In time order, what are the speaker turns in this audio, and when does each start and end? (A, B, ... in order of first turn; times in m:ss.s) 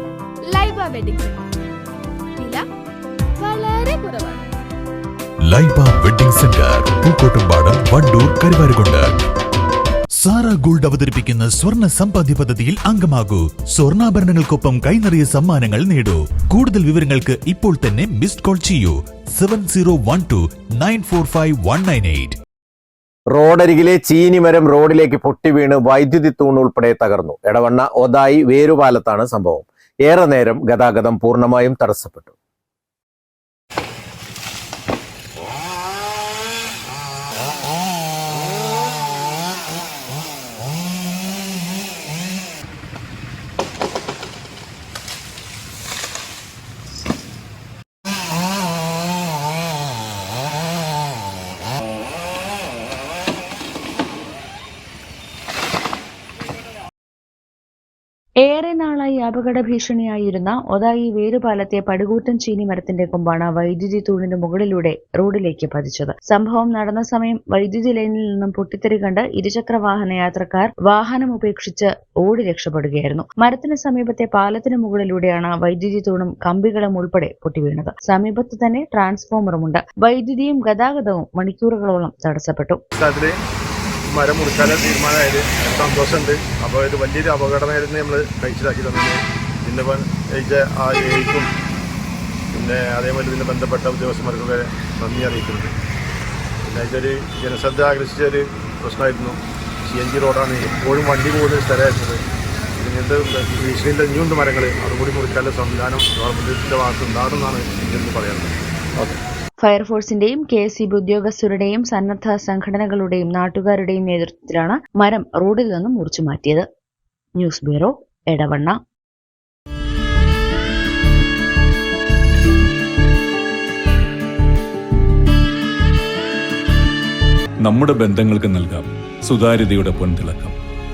0:00.5-0:01.4 A
0:02.4-0:02.6 A
0:03.4-0:04.4 A
0:05.5-0:09.1 B
0:10.2-0:22.4 B
0:23.3-0:32.3 C
0:58.4-1:22.8 D
1:23.0-1:23.4 E
1:24.1-1:31.5 E
1:32.5-1:35.7 E
1:36.6-1:42.2 E
1:42.8-1:49.2 E
1:49.6-1:56.7 D
1:57.4-1:58.8 D
2:07.6-2:10.6 F